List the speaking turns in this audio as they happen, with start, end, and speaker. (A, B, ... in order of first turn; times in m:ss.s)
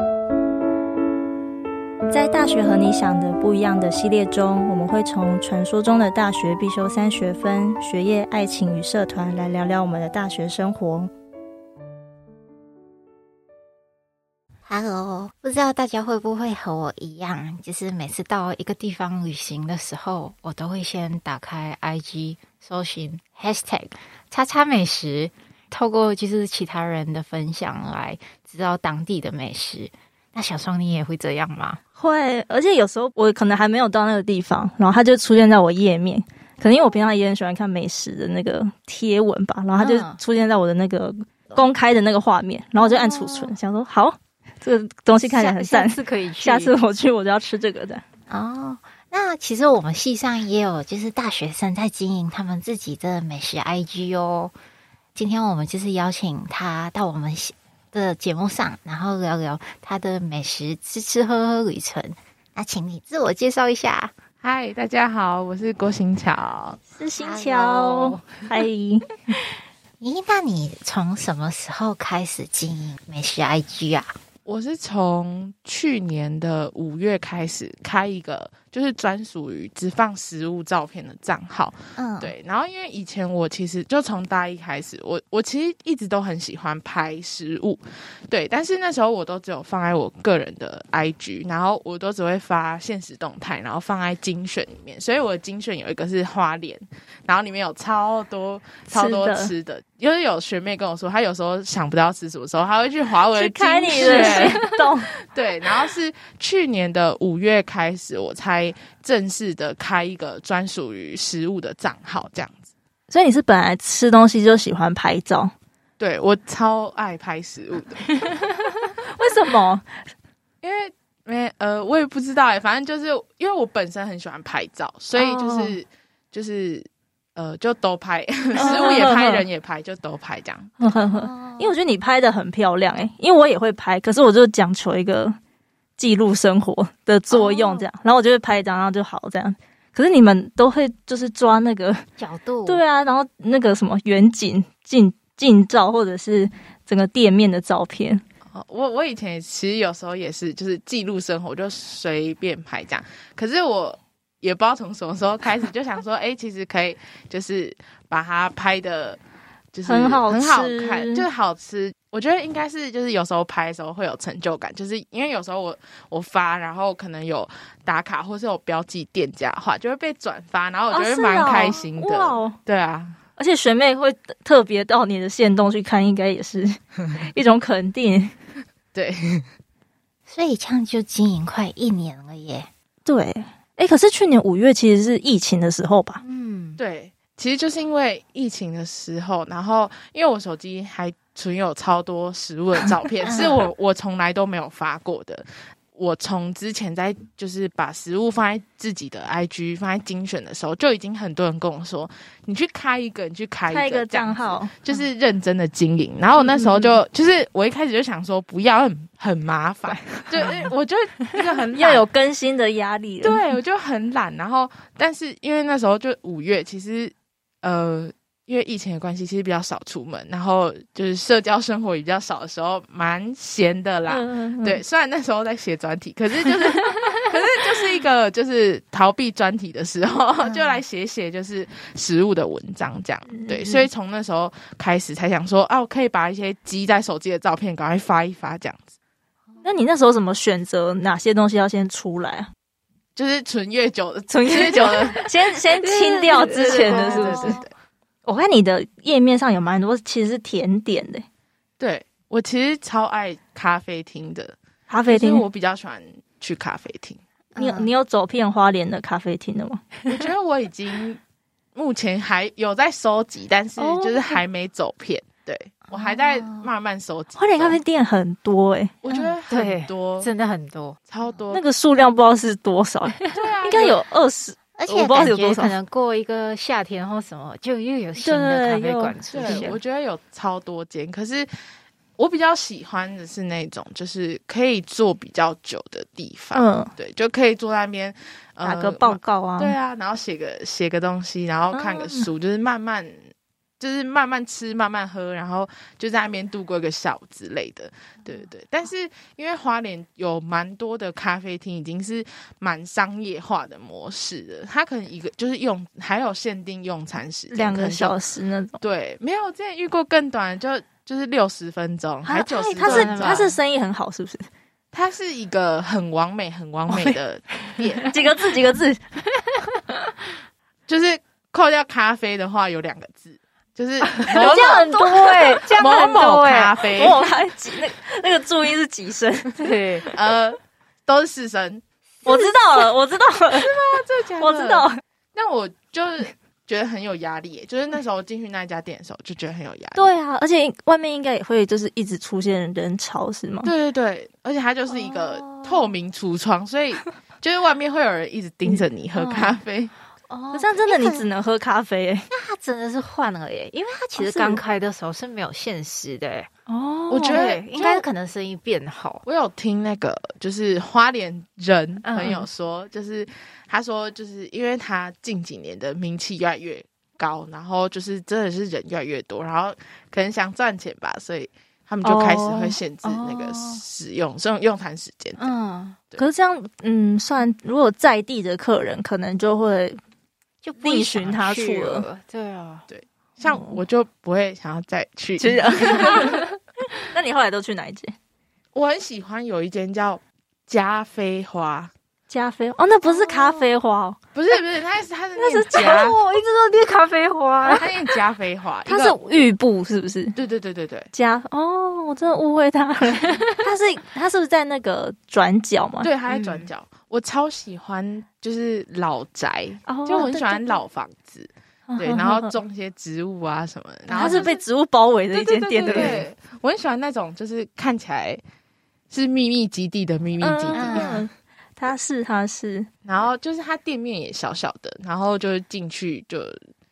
0:02.1-0:11.1 A
0:14.6-0:31.8 B
0:32.0-0:48.0 A
0:39.8-0:40.2 B
0:42.8-0:43.5 B
0:45.2-0:46.7 B
0:48.3-0:54.5 B
0:55.1-1:04.1 B
1:04.4-1:06.8 C
1:07.0-1:09.2 A
1:07.2-1:08.2 B
1:10.0-1:14.1 B
1:14.4-1:44.7 C
1:22.0-1:22.3 B
1:38.9-1:39.5 A
1:43.3-1:45.1 A
1:43.9-1:44.8 B
1:45.3-1:52.6 C
1:53.1-1:55.5 A
1:56.0-1:58.1 C
1:58.3-1:59.9 A
2:00.6-2:10.9 C
2:05.1-2:05.7 A
2:08.6-2:09.4 A
2:08.6-2:09.0 B
2:10.8-2:15.4 A
2:11.1-2:11.8 B
2:16.0-2:22.0 A
2:17.3-2:17.9 B
2:22.2-2:22.8 B
2:22.6-2:28.2 A
2:28.5-2:39.2 C
2:39.7-2:53.2 C
2:39.8-2:41.2 A
2:50.9-2:52.6 A
2:53.4-2:58.3 A
2:58.9-2:59.5 C
3:00.3-3:02.7 B
3:03.0-3:06.2 A
3:06.2-3:06.8 B
3:06.8-3:32.0 C
3:13.2-3:13.6 B
3:23.7-3:24.7 A
3:26.4-3:26.9 A
3:29.9-3:30.5 A
3:30.4-3:30.7 B
3:31.3-3:33.5 A
3:33.2-3:58.9 C
3:44.1-3:44.8 A
3:50.4-3:50.8 B
3:53.3-3:53.9 A
3:59.6-4:02.5 A
4:03.2-4:05.3 C
4:04.3-4:07.6 A
4:05.8-4:07.6 B
4:06.3-4:07.7 C
4:08.2-4:11.2 A
4:11.8-4:17.2 C
4:14.9-4:15.4 A
4:17.5-4:17.9 B
4:17.6-4:20.0 A
4:20.1-4:21.2 C
4:21.7-4:27.8 C
4:23.8-4:24.4 A
4:25.9-4:26.7 B
4:27.4-4:29.0 A
4:29.0-4:30.3 C
4:29.1-4:31.4 B
4:31.1-4:31.6 C
4:31.5-4:35.7 A
4:33.3-4:34.0 C
4:33.6-4:33.9 B
4:34.8-4:39.8 B
4:38.2-4:39.7 A
4:39.3-4:41.5 C
4:42.2-4:53.3 C
4:46.5-4:46.9 A
4:48.6-4:49.8 A
4:51.7-4:52.3 A
4:53.8-5:08.1 C
5:07.5-5:08.8 A
5:08.8-5:13.5 C
5:12.2-5:14.5 A
5:12.8-5:13.6 B
5:14.9-5:18.2 C
5:16.9-5:17.2 A
5:18.0-5:19.0 A
5:20.9-5:24.9 C
5:24.2-5:26.8 B
5:24.3-5:26.2 A
5:25.7-5:27.2 C
5:26.9-5:30.2 A
5:29.6-5:30.0 B
5:30.1-5:31.8 C
5:32.2-5:32.6 B
5:32.2-5:33.7 A
5:33.5-5:40.1 C
5:34.4-5:35.0 A
5:39.9-5:43.7 A
5:43.6-5:49.9 C
5:44.9-5:45.9 B
5:49.2-5:49.6 B
5:50.3-5:51.2 B
5:50.5-5:52.3 A
5:52.3-5:56.5 B
5:54.2-5:54.6 A
5:56.7-5:57.4 A
5:57.1-5:58.0 C
5:57.2-5:59.2 B
5:59.2-6:15.5 C
6:02.0-6:02.4 B
6:12.0-6:12.8 A
6:13.0-6:13.8 B
6:15.4-6:16.0 B
6:16.2-6:20.0 A
6:20.6-6:22.9 B
6:20.8-6:22.1 A
6:22.9-6:26.4 C
6:23.4-6:23.8 A
6:25.4-6:26.5 A
6:26.0-6:26.4 B
6:27.0-6:28.1 A
6:28.7-6:31.9 C
6:32.3-6:34.2 A
6:33.0-6:33.7 B
6:34.3-6:36.2 C
6:35.4-6:36.1 A
6:35.7-6:37.8 B
6:37.7-6:39.2 C
6:38.9-6:40.3 A
6:40.3-6:41.1 C
6:41.1-6:46.1 A
6:43.1-6:43.6 B
6:46.0-6:54.6 C
6:46.3-6:46.7 B
6:49.9-6:50.8 A
6:51.9-6:52.5 A
6:54.1-6:54.5 B
6:54.2-6:56.2 A
6:55.3-6:58.4 C
6:55.8-6:56.2 B
6:59.1-7:01.2 C
7:00.4-7:02.9 A
7:00.7-7:01.3 B
7:03.0-7:06.6 C